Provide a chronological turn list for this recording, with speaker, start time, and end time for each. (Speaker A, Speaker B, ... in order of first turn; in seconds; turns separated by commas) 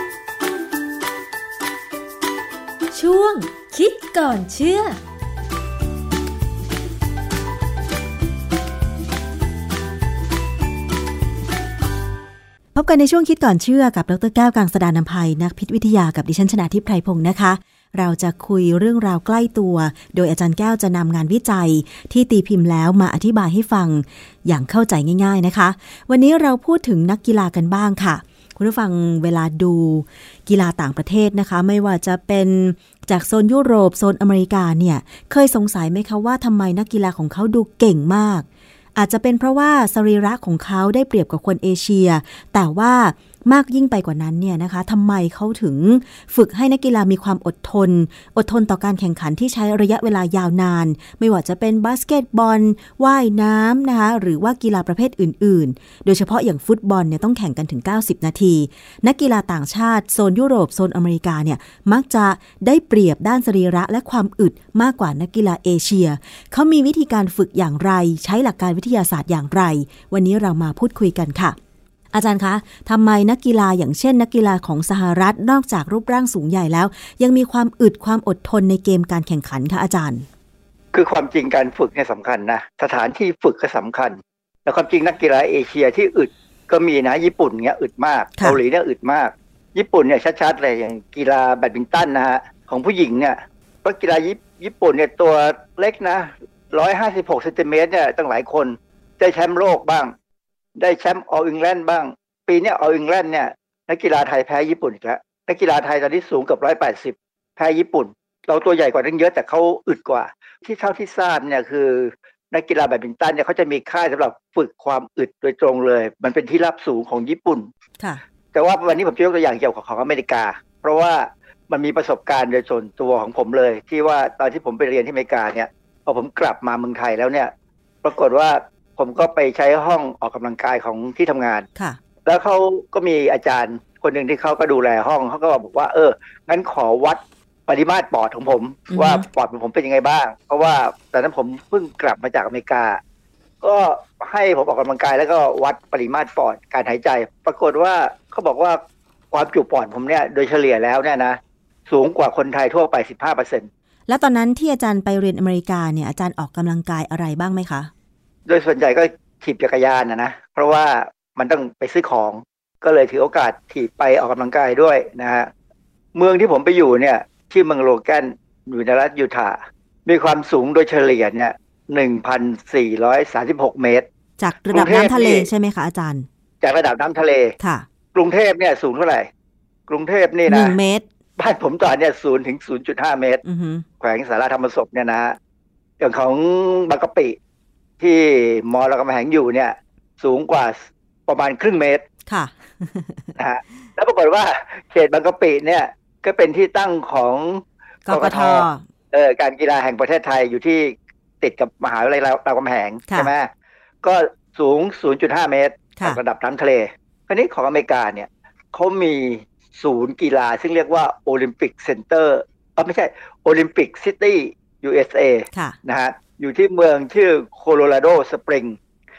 Speaker A: 2.9-5.0, Speaker B: 12.7-71.5, Speaker B: 72.1-80.2, Speaker C: 80.9-100.1, Speaker C: 100.8-117.7, Speaker C: 118.5-127.5, Speaker C: 128.0-131.7, Speaker C: 132.2-143.0, Speaker B: 138.9-139.2, Speaker C: 143.6-148.8, Speaker C: 149.3-153.7, Speaker B: 154.1-157.9, Speaker C: 158.5-165.5, Speaker C: 166.1-174.1, Speaker B: 174.4-176.3, Speaker C: 174.7-175.5, Speaker C: 176.6-177.5, Speaker B: 177.6-177.8, Speaker C: 178.1-179.3, Speaker C: 179.9-180.8, Speaker B: 180.5-181.0, Speaker C: 181.4-183.4, Speaker B: 183.4-183.8, Speaker C: 184.0-185.4, Speaker C: 186.0-187.3, Speaker C: 188.0-192.0, Speaker B: 192.3-193.3, Speaker C: 193.4-203.5, Speaker B: 198.1-198.8, Speaker C: 204.0-218.8